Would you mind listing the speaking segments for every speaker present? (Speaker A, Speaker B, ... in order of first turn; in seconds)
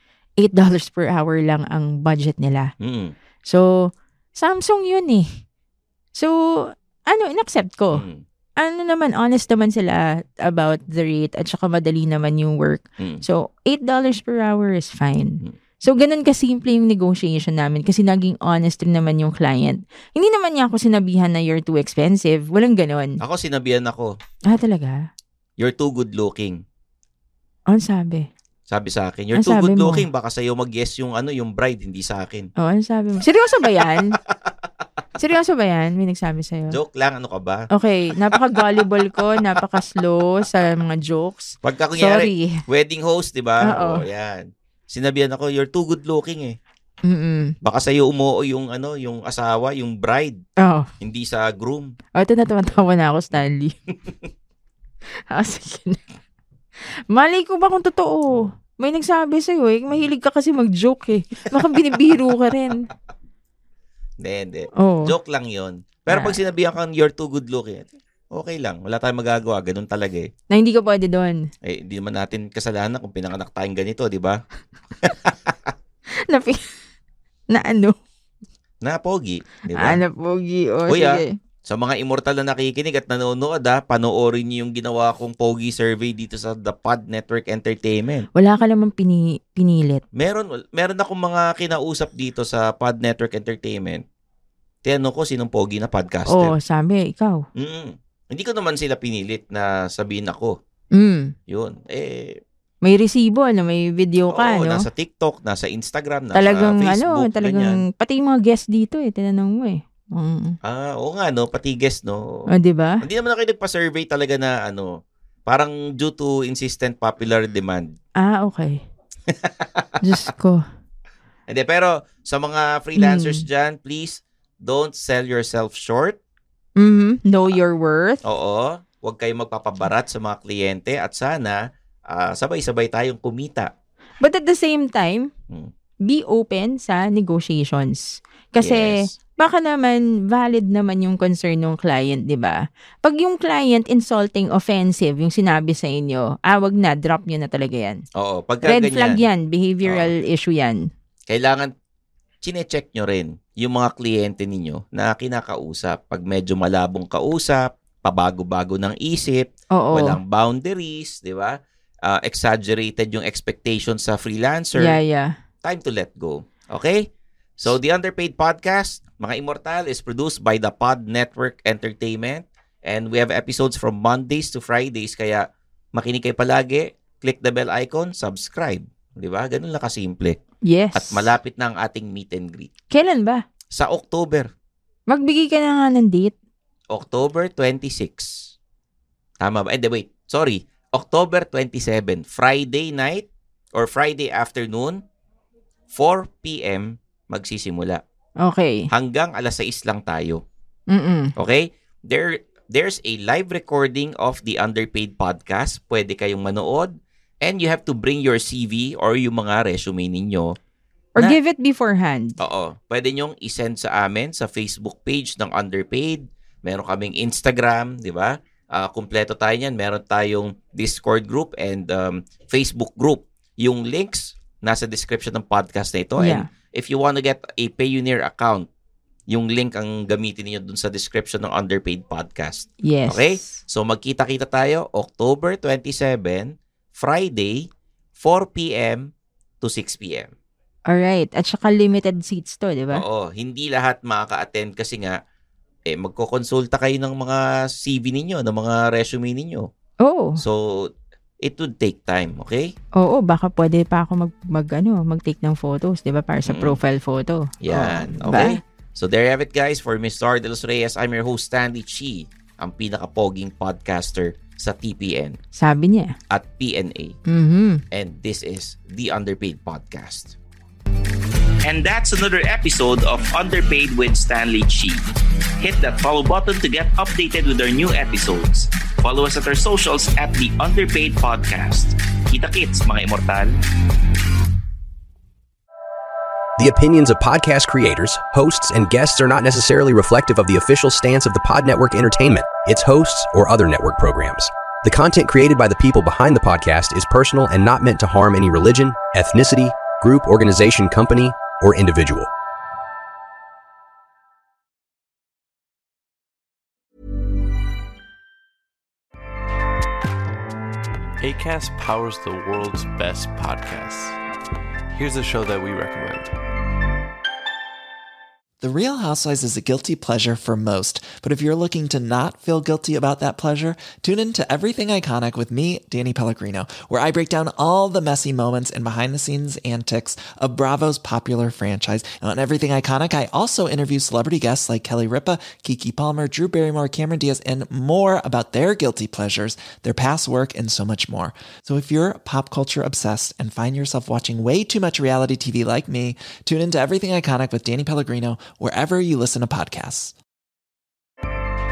Speaker A: 0.4-2.7, 3.5-5.4, 6.2-8.0, 8.6-23.2, 24.5-25.1, 27.7-28.3, 29.3-30.0, 32.6-34.1, 35.2-36.8, 37.7-42.6, 43.6-44.0, 47.0-47.5, 50.6-50.9, 52.1-53.7, 55.3-56.0, 57.1-62.9, 64.8-65.1, 66.1-66.4, 70.5-71.5, 76.3-76.6, 77.5-78.0, 79.8-81.3, 88.3-90.0, 96.3-97.4, 100.9-101.3, 102.8-104.8, 106.3-110.6, 112.5-113.0, 118.2-118.8, 120.0-120.6, 123.0-123.4, 126.8-128.2, 134.2-135.3, 136.0-148.0, 148.6-150.9, 159.7-160.2, 164.8-165.3, 180.6-181.3, 182.9-183.4, 185.1-186.3, 198.4-198.9, 200.9-201.3, 211.2-212.4, 226.2-226.4, 232.8-233.6, 240.9-243.0, 250.0-250.4, 253.0-258.6, 265.6-266.1, 267.3-267.8
Speaker B: 2.8-3.1, 7.9-8.2, 23.2-24.1, 25.6-26.6, 28.7-32.5, 33.8-34.1, 36.7-37.7, 41.6-46.6, 47.6-50.4, 51.0-51.9, 64.2-70.3, 71.6-74.4, 75.0-75.7, 78.8-80.0, 80.9-88.3, 90.2-94.0, 94.8-96.5, 97.6-100.6, 101.5-102.4, 104.3-107.8, 110.6-112.5, 113.0-117.9, 119.3-120.0, 121.5-126.2, 128.2-133.7, 138.6-139.1, 148.2-149.2, 149.8-150.1, 151.3-151.7, 152.4-165.0, 165.6-167.0, 167.6-180.4, 180.9-182.7, 183.7-184.5, 186.9-188.4, 189.4-195.0, 195.9-198.0, 198.9-200.4, 201.4-210.6, 212.4-228.7, 229.3-237.7, 238.2-239.1, 239.6-240.3, 242.9-245.2, 245.9-249.7, 250.4-250.9, 251.4-252.7, 256.4-256.8, 257.6-265.4, 266.3-267.1, 267.9-270.4
Speaker C: 271.6-275.1, 275.6-283.6
Speaker D: 286.6-302.3
Speaker E: 311.2-314.2, 314.9-316.3
Speaker F: 318.6-350.1